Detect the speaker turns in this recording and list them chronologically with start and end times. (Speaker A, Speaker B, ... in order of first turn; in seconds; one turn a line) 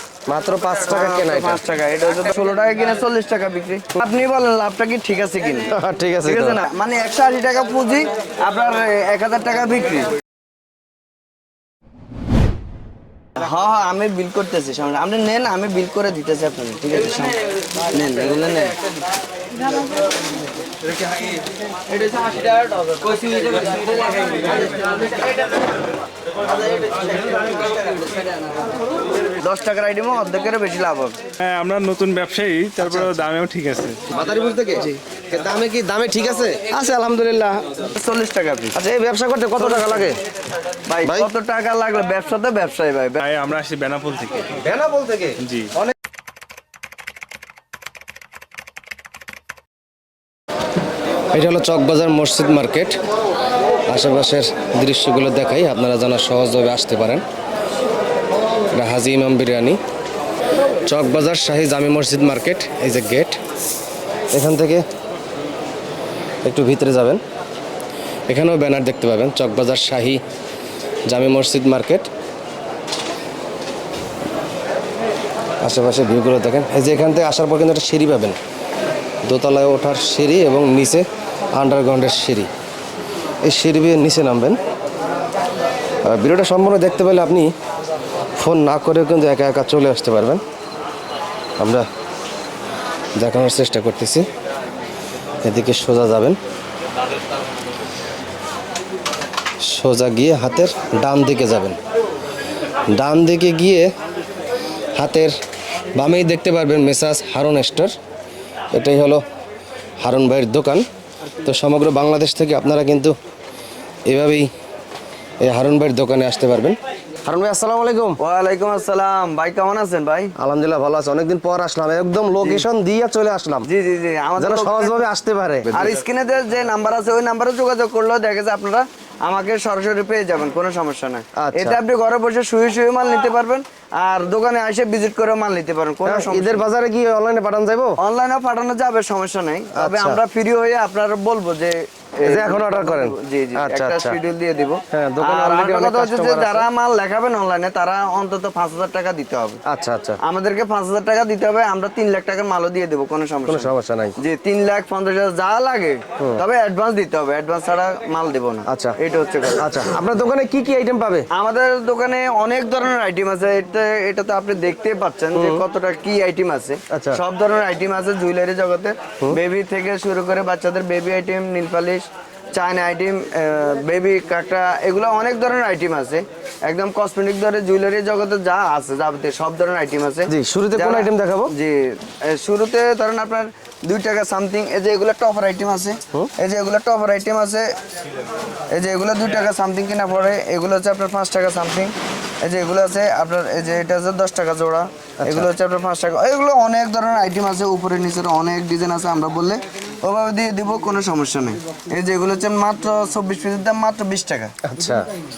Speaker A: 0.3-1.6
Speaker B: 0.9-5.7
Speaker A: 5.7-6.6
Speaker B: 6.2-10.1
Speaker B: 13.4-18.8
Speaker B: 29.4-31.2
Speaker C: 31.4-34.0
Speaker A: 32.8-33.1
Speaker A: 34.1-37.7
Speaker B: 37.9-38.8
Speaker A: 38.8-40.2
Speaker B: 39.6-40.1
Speaker B: 40.9-43.3
Speaker A: 41.0-41.3
Speaker C: 43.2-44.6
Speaker A: 44.6-45.9
Speaker C: 45.4-45.7
Speaker A: 51.3-53.0
Speaker A: 53.9-57.2
Speaker A: 58.7-59.8
Speaker A: 60.9-63.4
Speaker A: 64.3-64.8
Speaker A: 66.5-67.2
Speaker A: 68.3-70.2
Speaker A: 71.1-72.1
Speaker A: 75.6-78.4
Speaker A: 79.2-82.5
Speaker A: 83.5-84.6
Speaker A: 86.0-87.5
Speaker A: 88.4-90.4
Speaker A: 91.6-91.9
Speaker A: 93.2-94.3
Speaker A: 95.4-96.4
Speaker A: 99.6-101.8
Speaker A: 102.9-103.9
Speaker A: 105.0-105.4
Speaker A: 106.0-107.9
Speaker A: 108.7-109.2
Speaker A: 110.0-110.8
Speaker A: 111.4-113.2
Speaker A: 114.1-114.5
Speaker A: 115.4-118.2
Speaker B: 118.2-120.3
Speaker A: 120.4-123.7
Speaker B: 122.4-122.7
Speaker B: 123.7-125.0
Speaker A: 124.4-126.0
Speaker B: 125.7-136.7
Speaker A: 131.4-131.8
Speaker A: 136.1-138.0
Speaker B: 138.0-149.6
Speaker A: 139.7-140.2
Speaker A: 142.2-144.2
Speaker A: 144.9-146.7
Speaker A: 149.7-150.2
Speaker B: 150.2-159.9
Speaker A: 153.5-154.2
Speaker A: 158.7-158.9
Speaker A: 159.6-161.3
Speaker B: 161.3-187.7
Speaker A: 165.3-165.6
Speaker A: 166.9-167.2
Speaker A: 180.3-181.5
Speaker B: 188.7-204.5
Speaker A: 195.2-195.5
Speaker A: 204.6-205.1